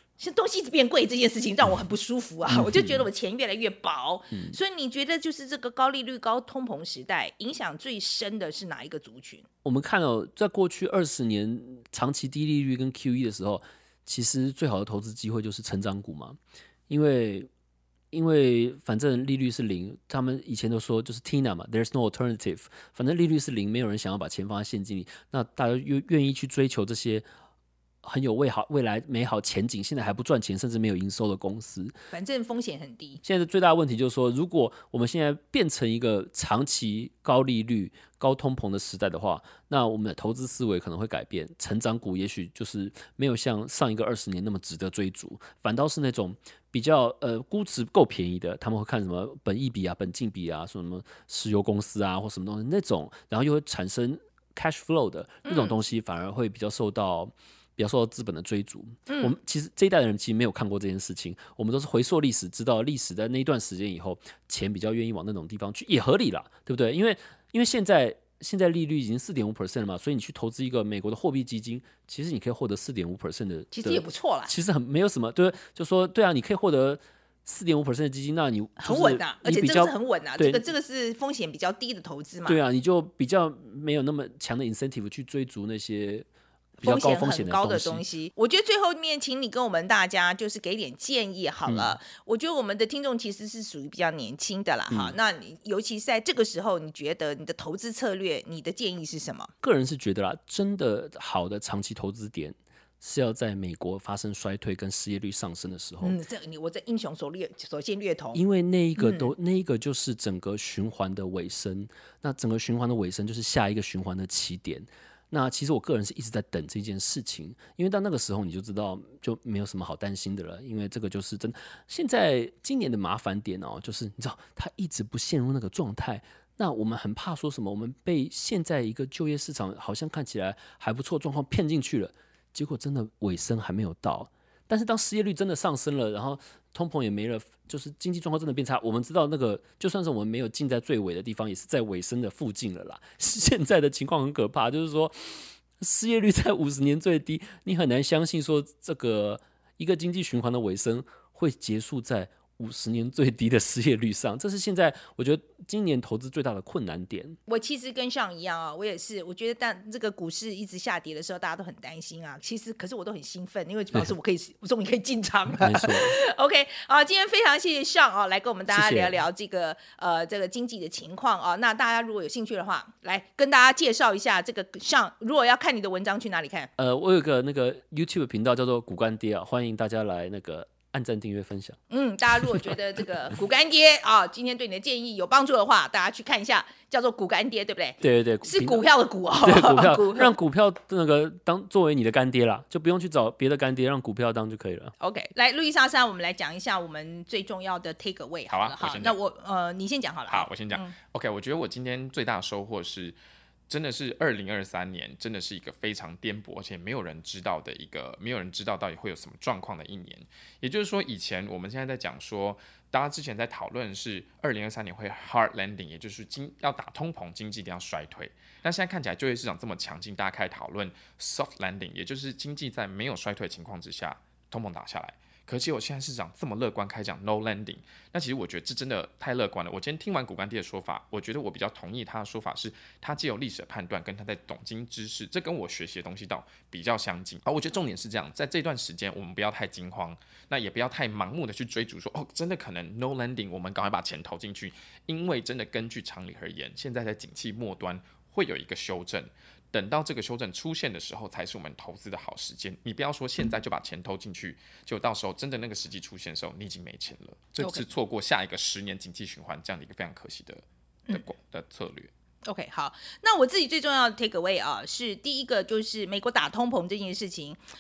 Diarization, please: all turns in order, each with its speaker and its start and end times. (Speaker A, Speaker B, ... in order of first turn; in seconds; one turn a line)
Speaker A: 0.2-9.5
Speaker B: 2.5-3.1
Speaker B: 9.6-16.4
Speaker B: 16.9-17.5
Speaker B: 18.1-27.3
Speaker B: 28.0-31.9
Speaker A: 32.1-33.2
Speaker B: 33.2-80.7
Speaker A: 55.5-55.7
Speaker A: 59.1-59.4
Speaker A: 73.7-74.5
Speaker A: 78.8-82.6
Speaker B: 82.5-86.3
Speaker B: 86.8-88.0
Speaker A: 86.8-99.5
Speaker B: 91.7-92.0
Speaker B: 94.9-95.2
Speaker B: 99.6-106.2
Speaker A: 106.0-108.4
Speaker B: 108.3-157.4
Speaker A: 109.0-109.3
Speaker A: 157.5-176.7
Speaker B: 165.6-166.1
Speaker B: 168.7-169.2
Speaker B: 176.8-181.8
Speaker A: 181.9-190.3
Speaker B: 188.0-188.9
Speaker B: 189.4-194.9
Speaker A: 195.0-200.9
Speaker C: 198.5-199.2
Speaker C: 200.3-203.2
Speaker C: 203.7-262.1
Speaker A: 257.6-257.9
Speaker A: 262.5-267.6